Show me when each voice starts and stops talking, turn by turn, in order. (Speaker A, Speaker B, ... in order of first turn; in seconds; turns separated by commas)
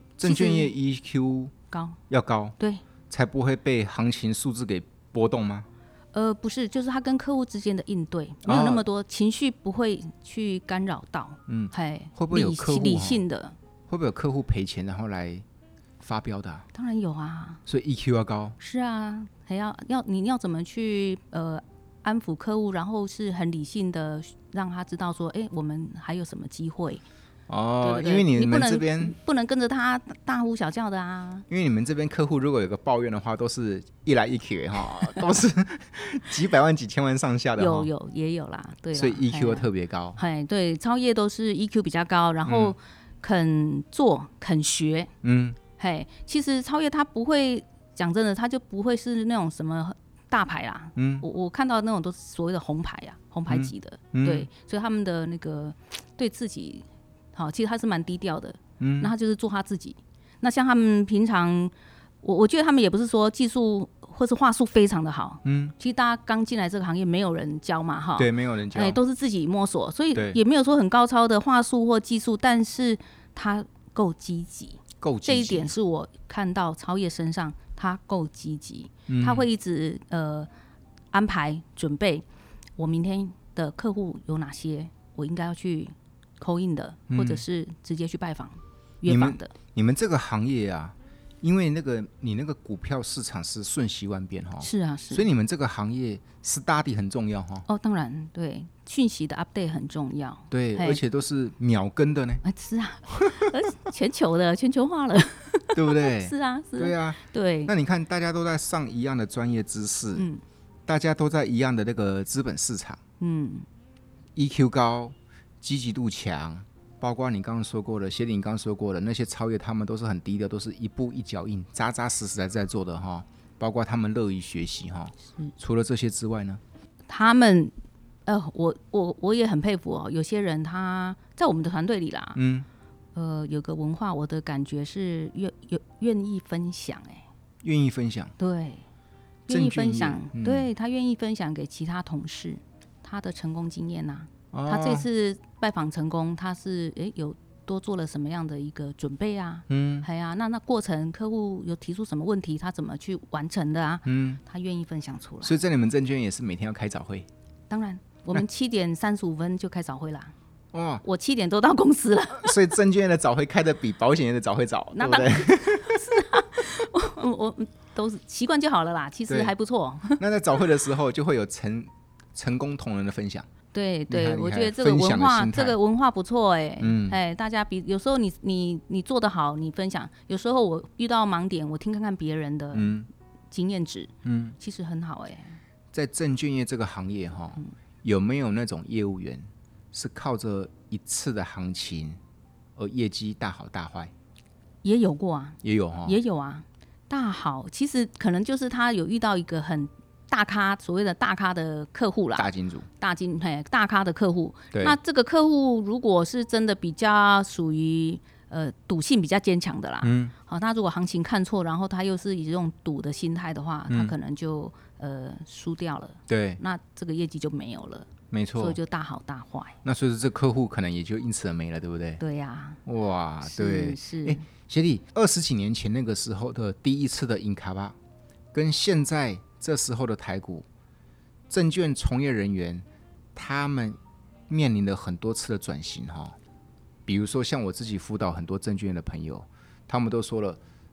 Speaker A: 0.2-1.5, Speaker B: 0.2-0.7, Speaker B: 1.7-2.0, Speaker A: 2.1-2.6, Speaker A: 3.1-5.7, Speaker B: 6.1-13.6, Speaker A: 8.4-8.8, Speaker A: 11.5-13.2, Speaker A: 13.9-15.4, Speaker A: 16.0-16.7, Speaker B: 16.7-17.6, Speaker A: 17.7-18.6, Speaker B: 18.6-27.0, Speaker A: 27.5-29.1, Speaker B: 27.8-31.5, Speaker A: 31.5-37.9, Speaker B: 37.6-45.1, Speaker A: 39.0-40.2, Speaker A: 42.5-42.8, Speaker A: 45.2-45.6, Speaker B: 45.8-80.5, Speaker A: 51.0-51.2, Speaker A: 53.5-54.5, Speaker A: 58.8-59.1, Speaker A: 65.5-65.7, Speaker A: 68.2-69.0, Speaker A: 75.0-75.7, Speaker A: 79.1-79.5, Speaker B: 81.1-82.2, Speaker B: 82.8-89.5, Speaker A: 87.1-87.4, Speaker A: 89.1-97.7, Speaker B: 94.6-95.3, Speaker B: 97.7-101.0, Speaker A: 100.5-102.4, Speaker B: 102.4-107.7, Speaker A: 103.1-103.5, Speaker A: 105.7-110.3, Speaker B: 110.2-110.4, Speaker A: 110.9-113.0, Speaker B: 113.2-113.7, Speaker A: 114.3-126.6, Speaker B: 127.1-127.7, Speaker B: 128.3-132.4, Speaker A: 132.4-132.7, Speaker B: 133.2-137.2, Speaker A: 137.6-138.3, Speaker B: 138.4-138.8, Speaker B: 139.5-155.6, Speaker A: 139.5-140.7, Speaker A: 144.5-145.1, Speaker A: 149.7-150.1, Speaker A: 154.1-154.4, Speaker A: 155.4-157.3, Speaker B: 157.7-160.3, Speaker A: 160.7-161.0, Speaker B: 161.0-162.7, Speaker A: 162.3-166.2, Speaker B: 164.9-170.2, Speaker A: 169.3-169.5, Speaker A: 170.2-173.5, Speaker B: 173.7-182.9, Speaker A: 174.1-175.8, Speaker A: 176.8-177.2, Speaker A: 182.7-183.1, Speaker B: 183.5-185.6, Speaker A: 184.2-184.6, Speaker A: 185.9-192.2, Speaker A: 192.8-194.1, Speaker B: 194.8-219.8, Speaker A: 195.6-196.2, Speaker A: 202.4-202.9, Speaker A: 210.0-210.3, Speaker A: 213.9-214.1, Speaker A: 216.3-216.6, Speaker A: 218.3-218.8, Speaker A: 219.8-222.2, Speaker B: 222.2-222.8, Speaker A: 222.8-228.0, Speaker B: 223.4-224.4, Speaker A: 228.5-230.7, Speaker A: 231.5-236.4, Speaker A: 237.1-240.6